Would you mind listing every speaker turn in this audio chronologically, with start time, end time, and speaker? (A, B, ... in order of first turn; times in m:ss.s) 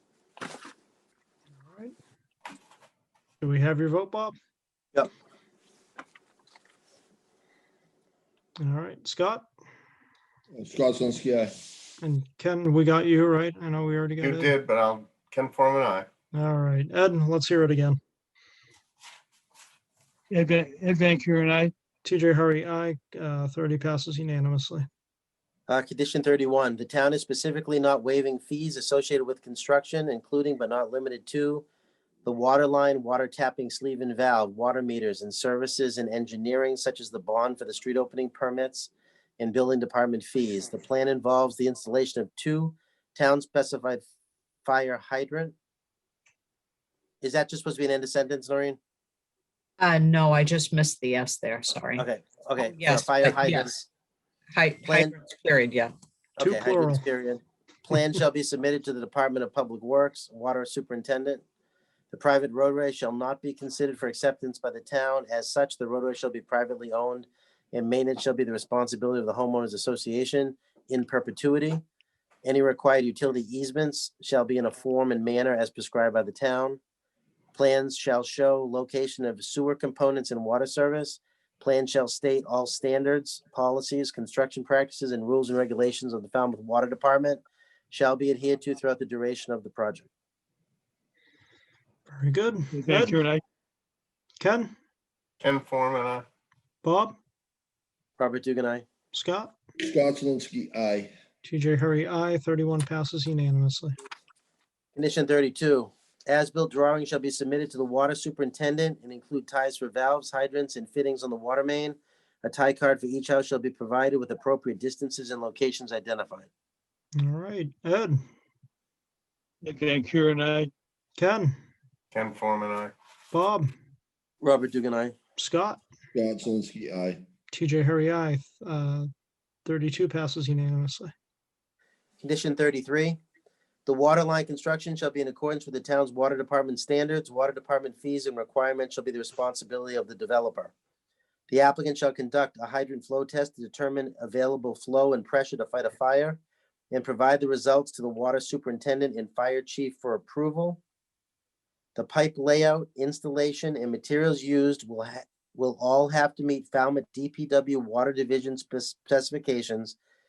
0:01.6-0:01.9 A
0:03.4-0:04.3 A
0:08.6-0:09.5 A
0:10.5-0:11.5 B
0:12.0-0:14.6 A
0:14.2-0:16.1 C
0:16.3-0:18.0 A
0:20.3-0:21.7 D
0:22.0-0:24.8 A
0:25.7-0:31.6 E
0:32.2-0:44.0 E
0:44.6-0:45.5 E
0:47.2-0:48.8 E
0:49.8-0:52.0 F
0:52.0-0:53.8 E
0:52.6-0:53.8 F
0:54.5-0:55.9 F
0:54.8-0:55.1 E
0:56.4-1:01.4 E
0:56.4-0:57.0 A
1:02.1-1:11.8 E
1:12.4-1:16.8 E
1:17.5-1:30.1 E
1:32.1-1:33.2 A
1:32.7-1:33.4 D
1:34.4-1:34.7 A
1:35.4-1:36.2 C
1:36.8-1:37.2 A
1:38.2-1:38.8 E
1:39.1-1:39.5 A
1:39.8-1:41.1 B
1:41.4-1:43.9 A
1:45.0-1:56.5 E
1:57.2-1:58.2 A
1:59.6-2:00.7 D
2:01.2-2:01.5 A
2:02.1-2:02.9 C
2:03.3-2:03.7 A
2:04.4-2:05.1 E
2:05.4-2:05.8 A
2:06.1-2:07.2 B
2:07.5-2:09.1 A
2:09.6-2:11.1 A
2:12.2-2:13.2 E
2:13.8-2:20.7 E
2:21.5-2:26.4 E
2:26.9-2:30.8 E
2:32.0-2:40.0 E